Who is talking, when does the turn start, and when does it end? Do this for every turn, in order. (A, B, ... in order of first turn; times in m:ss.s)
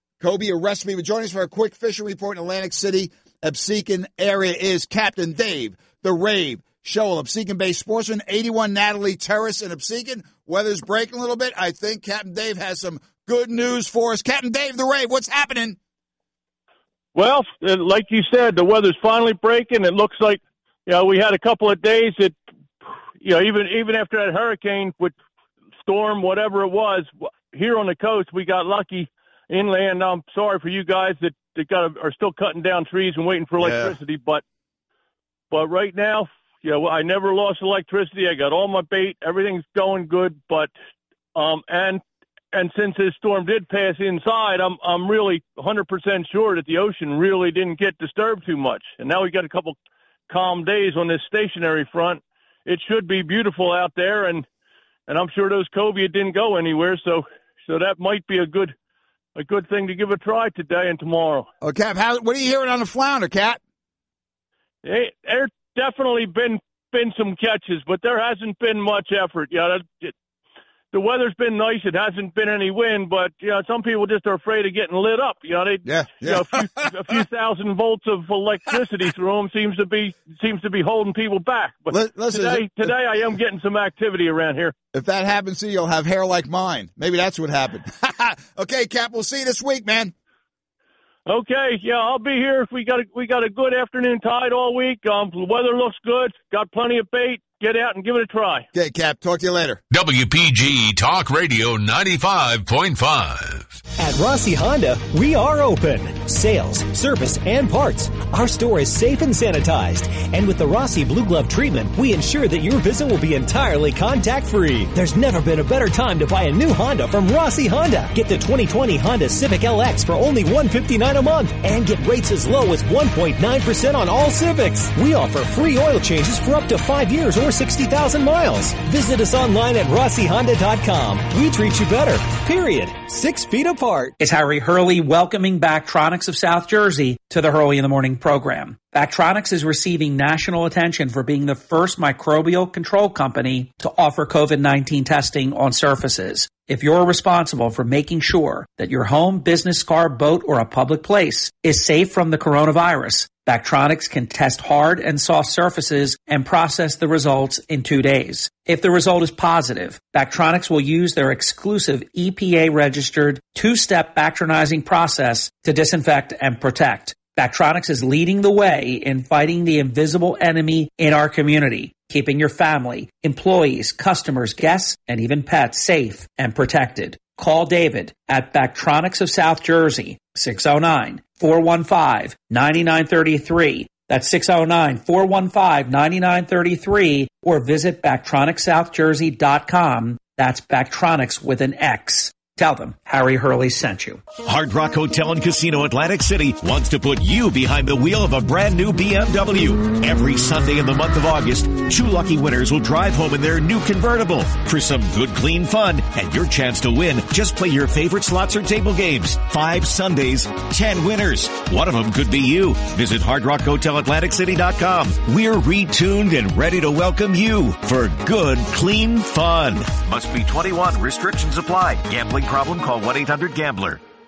0:00.2-0:15.8 A
0:17.1-0:25.2 B
0:25.8-0:34.4 B
0:33.6-0:34.0 A
0:35.5-0:40.7 B
0:41.3-0:49.8 B
0:50.3-0:54.4 B
0:55.1-0:58.7 B
0:59.4-1:01.5 B
1:01.6-1:03.6 A
1:04.8-1:10.1 B
1:10.9-1:24.7 B
1:15.8-1:17.1 A
1:21.9-1:22.9 A
1:24.9-1:30.1 A
1:31.3-1:38.6 B
1:38.7-1:39.8 A
1:39.9-1:43.8 C
1:44.0-2:14.1 D
2:14.2-3:14.3 E
3:14.4-3:44.0 F